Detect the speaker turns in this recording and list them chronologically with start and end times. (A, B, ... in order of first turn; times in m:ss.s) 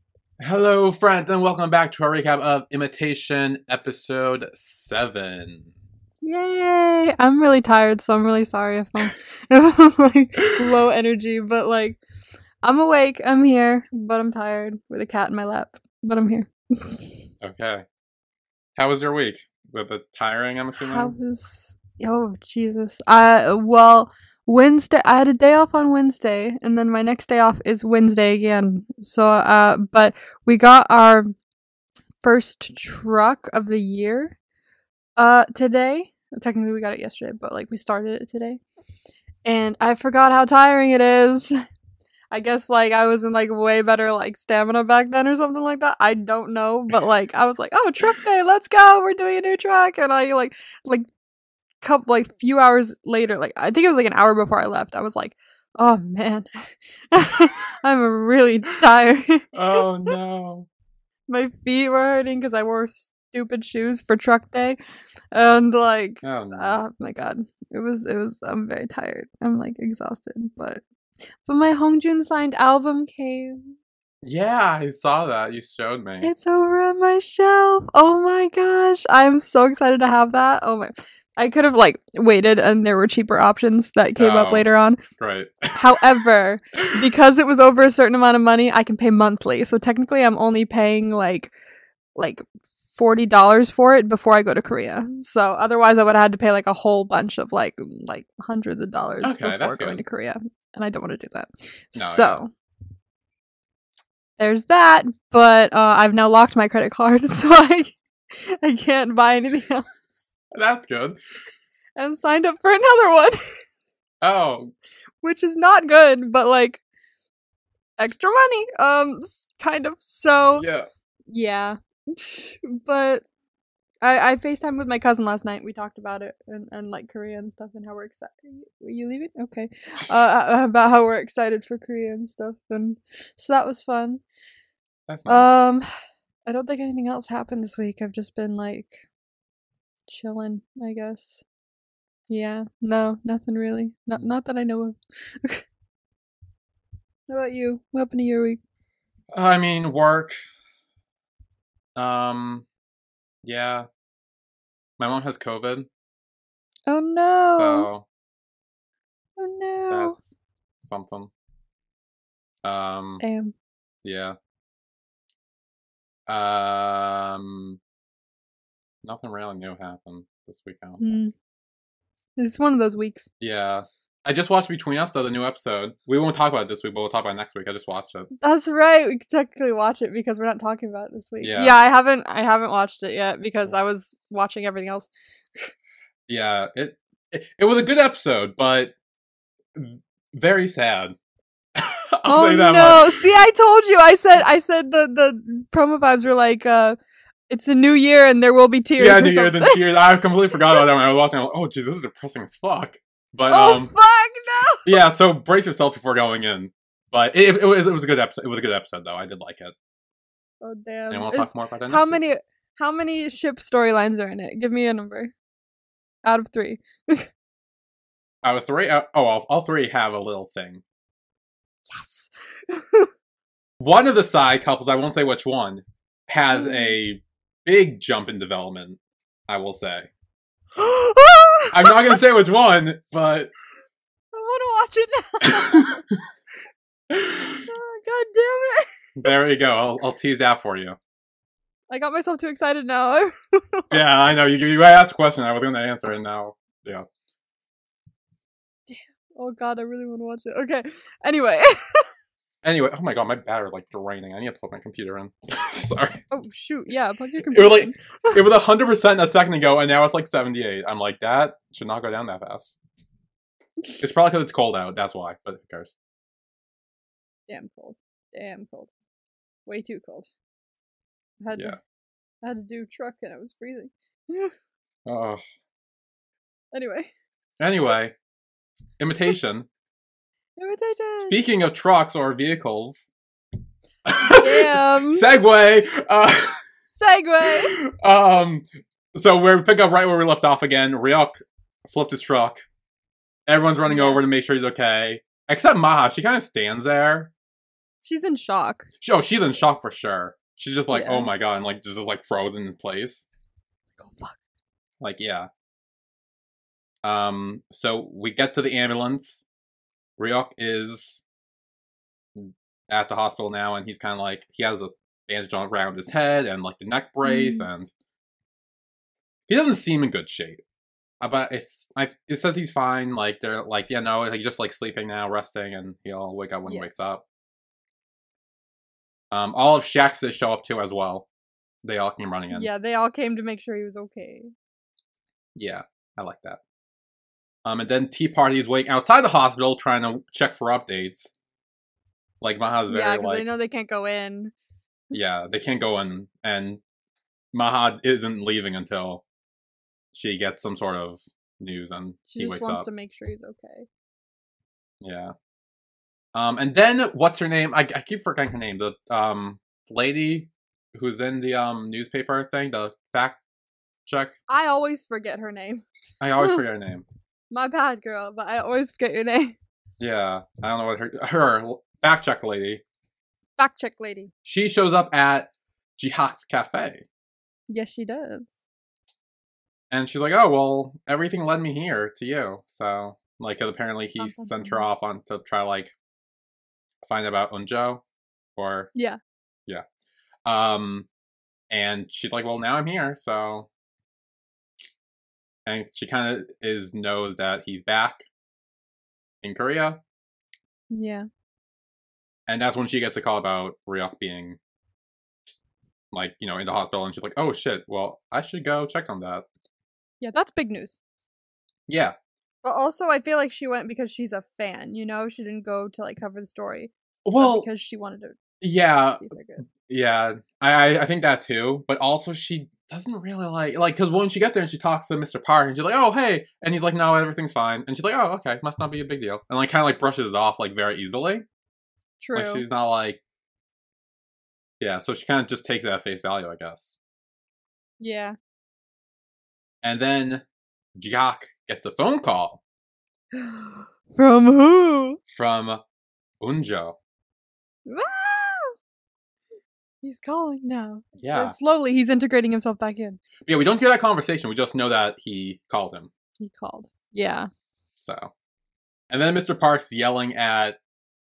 0:00.4-0:05.7 A
0:06.2-0:12.0 B
0:10.4-0:10.8 A
0:12.6-0:17.1 B
0:17.4-0:17.8 A
0:18.8-0:21.1 A
0:20.8-0:31.3 B
0:32.2-0:34.4 B
0:35.2-0:38.6 B
0:39.4-0:41.5 B
0:42.3-0:51.0 B
0:51.8-0:56.5 B
0:57.1-1:00.1 B
0:59.5-1:00.7 A
1:01.3-1:04.8 B
1:05.3-1:10.8 B
1:06.2-1:06.8 A
1:11.4-1:13.6 B
1:14.2-1:16.3 A
1:16.2-1:25.0 B
1:24.2-1:26.0 A
1:25.8-1:31.5 B
1:26.7-1:27.1 A
1:32.1-1:32.4 B
1:32.9-1:42.5 B
1:39.2-1:40.0 A
1:41.9-1:42.4 A
1:44.4-1:49.9 B
1:50.5-1:51.2 A
1:52.0-1:53.4 B
1:54.2-1:54.7 A
1:55.2-1:56.8 B
1:58.0-2:00.6 B
2:00.6-2:00.9 A
2:01.3-2:03.2 B
2:04.0-2:14.2 B
2:15.1-2:15.5 A
2:15.3-2:15.9 B
2:16.4-2:19.0 B
2:20.1-2:21.4 B
2:22.3-2:25.6 B
2:27.3-2:28.6 B
2:29.3-2:30.4 A
2:32.0-2:32.6 A
2:33.4-2:33.9 A
2:35.0-2:35.9 A
2:36.9-2:37.9 B
2:37.5-2:38.0 A
2:39.4-2:40.2 B
2:39.9-2:40.2 A
2:40.8-2:41.3 A
2:42.6-2:43.2 A
2:43.2-2:43.5 B
2:44.0-2:44.4 A
2:46.3-2:47.8 A
2:49.0-2:51.1 A
2:51.0-2:51.3 B
2:52.4-2:53.3 B
2:53.4-2:58.3 A
2:58.4-3:05.7 B
3:01.4-3:01.8 A
3:06.3-3:08.9 A
3:09.7-3:11.1 A
3:11.8-3:13.2 A
3:12.2-3:17.0 B
3:17.5-3:20.0 B
3:19.0-3:23.9 A
3:20.6-3:20.8 B
3:23.5-3:24.8 B
3:24.8-3:29.7 A
3:30.6-3:35.3 B
3:31.1-3:32.2 A
3:36.2-3:37.3 B
3:38.4-3:40.8 A
3:41.9-3:43.1 B
3:43.8-3:50.1 A
3:46.5-3:47.0 B
3:50.8-3:52.2 B
3:51.7-3:53.5 A
3:54.3-3:56.0 B
3:55.4-3:55.9 A
3:57.1-3:57.6 A
3:57.6-3:58.8 B
3:59.2-4:01.0 A
4:01.9-4:04.0 B
4:03.9-4:07.0 A
4:08.9-4:12.0 B
4:12.6-4:16.2 A
4:16.3-4:18.4 B
4:17.5-4:22.8 A
4:24.0-4:25.9 A
4:27.5-4:28.9 B
4:29.6-4:30.3 B
4:31.4-4:31.8 B
4:32.4-4:34.5 B
4:35.0-4:35.4 A
4:36.7-4:37.1 B
4:37.6-4:38.1 A
4:39.0-4:39.7 A
4:40.6-4:41.4 B
4:41.2-4:43.1 A
4:44.0-4:46.6 A
4:44.3-4:45.3 B
4:46.9-4:47.7 B
4:47.4-4:52.6 A
4:53.5-4:57.3 A
4:53.9-4:54.4 B
4:58.0-4:58.9 B
4:59.0-5:03.2 A
5:00.9-5:01.3 B
5:04.0-5:04.4 B
5:05.0-5:05.5 A
5:07.0-5:09.4 A
5:10.2-5:11.2 A
5:12.3-5:17.9 A
5:17.2-5:17.7 B
5:19.5-5:20.6 A
5:21.2-5:27.2 A
5:29.3-5:31.3 A
5:31.8-5:32.7 A
5:32.5-5:34.5 B
5:35.6-5:36.6 A
5:37.6-5:41.3 A
5:42.4-5:43.4 A
5:42.9-5:44.5 B
5:45.1-5:46.8 A
5:47.5-5:49.2 A
5:50.1-5:52.8 A
5:52.3-5:53.9 B
5:55.0-5:55.3 A
5:56.3-6:03.4 A
6:04.0-6:04.3 A
6:04.5-6:05.8 B
6:06.2-6:07.0 A
6:07.5-6:09.6 B
6:10.0-6:12.8 A
6:13.6-6:14.3 B
6:14.4-6:17.0 A
6:17.7-6:18.5 B
6:19.9-6:25.9 A
6:24.2-6:24.9 B
6:27.0-6:28.0 A
6:28.6-6:28.9 A
6:30.4-6:31.1 A
6:31.7-6:33.7 A
6:35.6-6:38.2 A
6:39.4-6:40.0 A
6:40.9-6:41.2 B
6:42.5-6:44.6 A
6:46.1-6:49.4 A
6:50.2-6:51.0 B
6:51.9-6:52.1 A
6:52.6-6:58.4 B
6:57.2-6:57.7 A
6:58.6-7:11.4 A
6:59.2-6:59.6 B
7:12.2-7:12.6 B
7:12.3-7:13.2 A
7:14.8-7:16.9 A
7:18.0-7:18.4 B
7:19.8-7:20.4 A
7:21.0-7:22.6 A
7:23.3-7:25.2 B
7:25.3-7:25.8 A
7:26.4-7:27.0 A
7:27.9-7:28.8 B
7:30.0-7:33.2 B
7:31.2-7:31.6 A
7:33.4-7:36.1 A
7:36.4-7:37.5 B
7:38.0-7:38.3 A
7:39.1-7:40.8 A